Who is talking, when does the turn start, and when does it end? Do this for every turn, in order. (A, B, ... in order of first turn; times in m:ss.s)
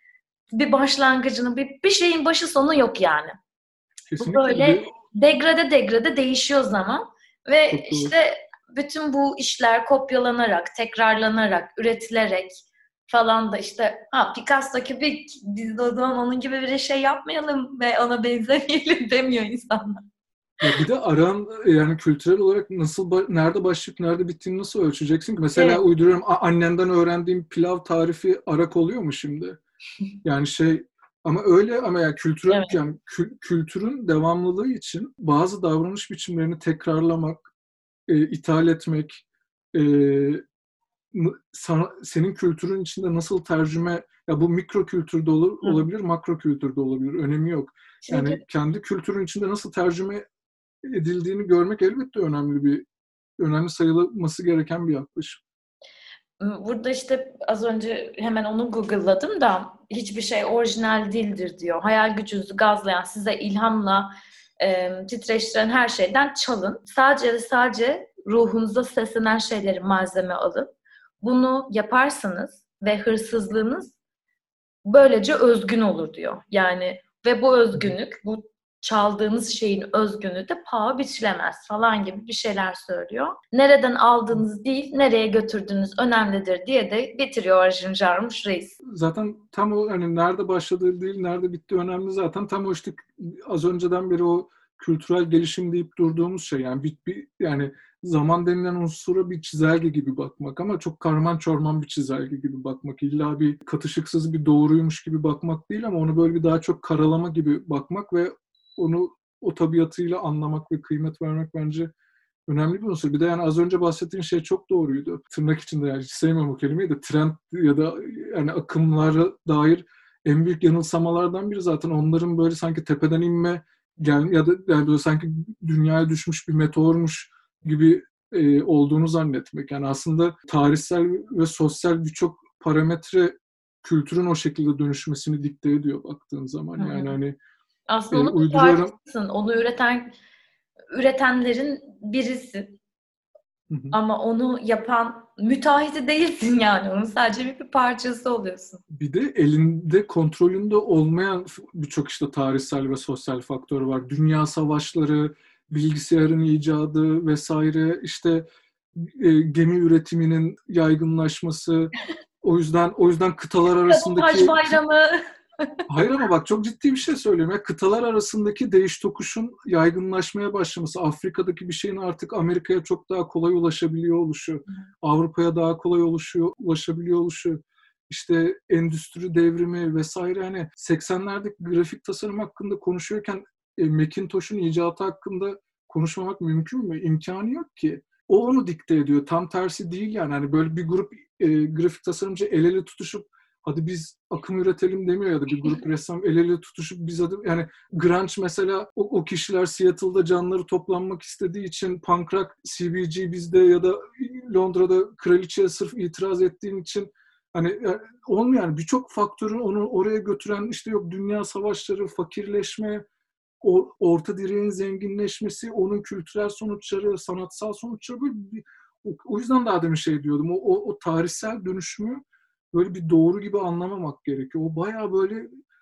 0:00.5-0:03.4 A
0:04.1-0:04.9 B
0:04.2-0:20.0 A
0:07.7-0:08.1 B
0:20.6-0:29.6 B
0:25.6-0:25.8 A
0:30.2-0:37.4 B
0:32.5-0:32.8 A
0:38.1-0:40.4 B
0:41.1-0:50.2 B
0:45.6-0:45.9 A
0:48.1-0:48.4 A
0:50.8-0:52.9 B
0:53.4-0:55.4 B
0:56.4-1:10.7 A
1:11.2-1:14.0 A
1:14.8-1:28.8 A
1:28.8-1:51.9 B
1:52.5-2:17.4 B
2:16.8-2:17.2 A
2:17.9-2:20.1 A
2:18.1-2:19.0 B
2:20.9-2:22.8 A
2:23.7-2:24.0 B
2:23.9-2:28.8 A
2:28.9-2:44.7 B
2:43.9-2:45.2 A
2:45.9-3:33.0 B
3:33.6-3:45.5 B